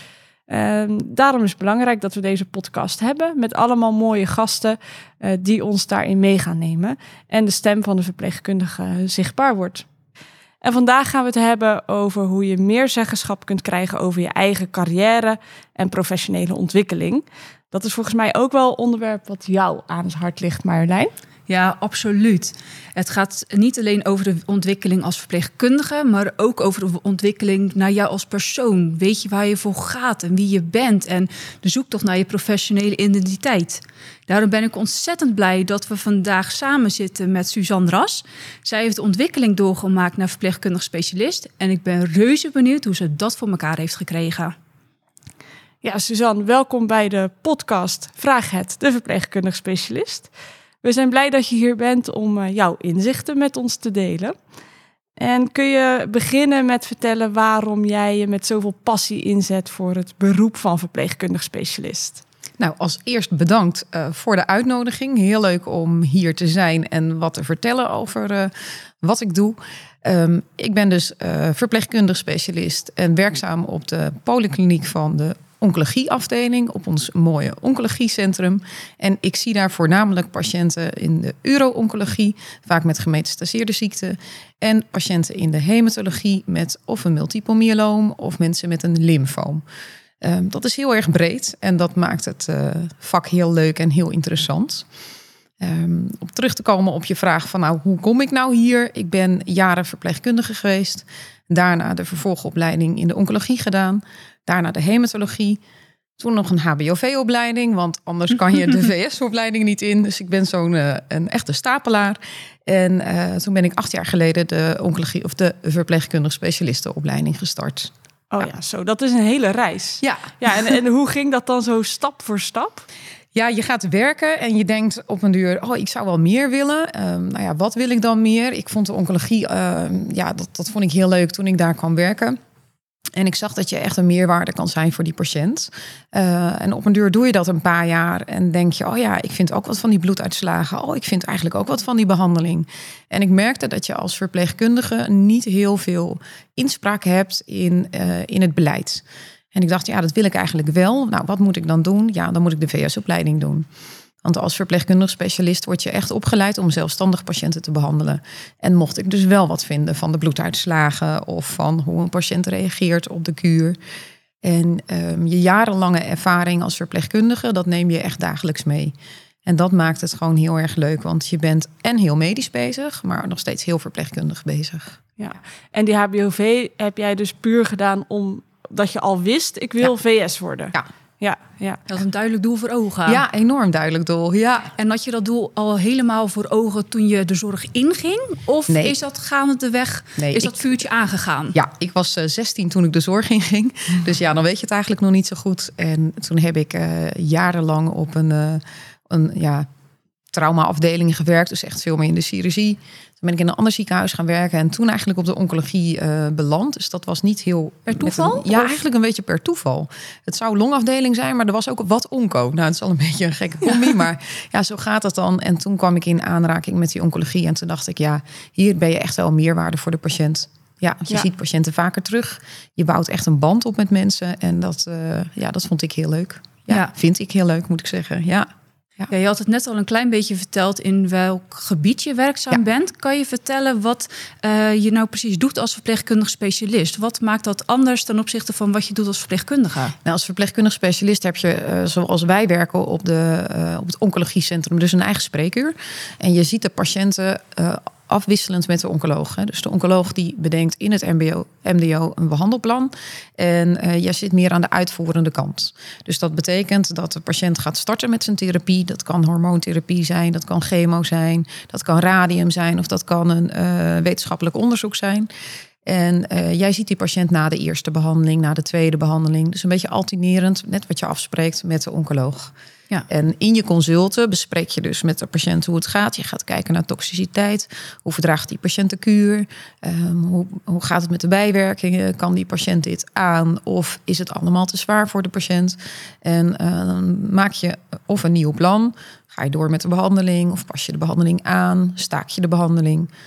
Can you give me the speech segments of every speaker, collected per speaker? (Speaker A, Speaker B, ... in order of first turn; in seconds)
Speaker A: 0.5-9.9, 10.6-21.1, 45.8-50.3, 50.8-54.3, 55.2-62.2, 118.3-122.8, 175.2-181.8
Speaker B: 21.5-44.5, 181.9-183.2, 184.8-191.6, 207.9-208.8, 229.1-239.9
Speaker C: 62.6-89.6, 90.2-94.8, 95.6-105.6, 106.2-117.9, 120.0-120.7, 123.3-132.4, 133.2-153.7, 154.2-163.8, 164.4-168.9, 169.4-175.0, 183.1-184.7, 188.7-188.9, 190.2-190.6, 191.5-199.7, 200.3-228.5, 240.0-265.3, 265.8-272.5, 273.1-293.1